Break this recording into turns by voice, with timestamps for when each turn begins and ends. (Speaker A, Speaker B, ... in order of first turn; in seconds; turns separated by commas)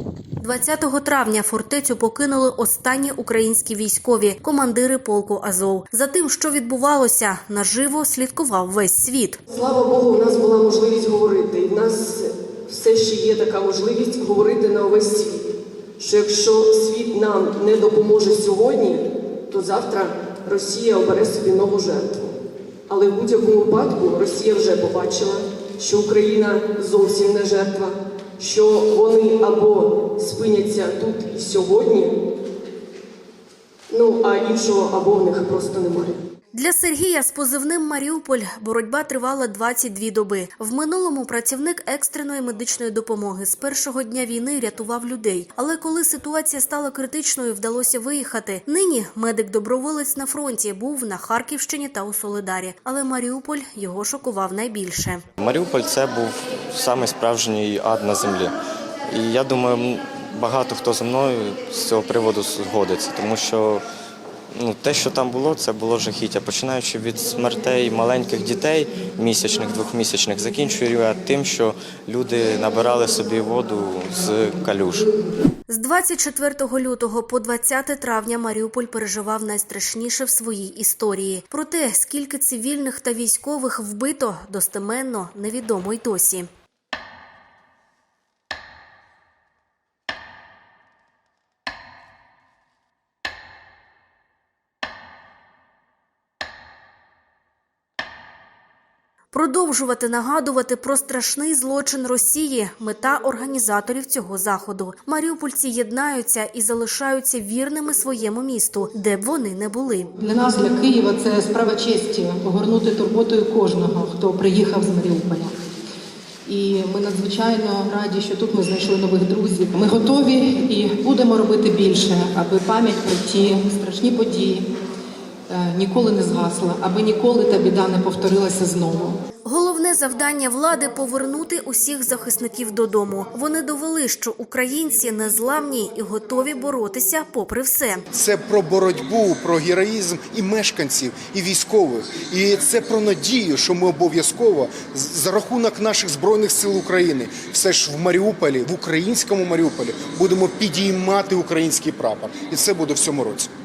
Speaker A: 0.4-9.4, Speaker B: 9.5-15.5, Speaker B: 16.0-32.1, Speaker B: 33.9-36.2, Speaker A: 36.5-55.2, Speaker C: 55.4-58.5, Speaker C: 59.1-63.8, Speaker C: 64.6-75.1, Speaker A: 75.7-86.5, Speaker A: 99.3-110.1, Speaker D: 110.2-115.5, Speaker D: 116.5-124.7, Speaker D: 125.5-129.2, Speaker A: 129.4-138.0, Speaker E: 138.1-153.5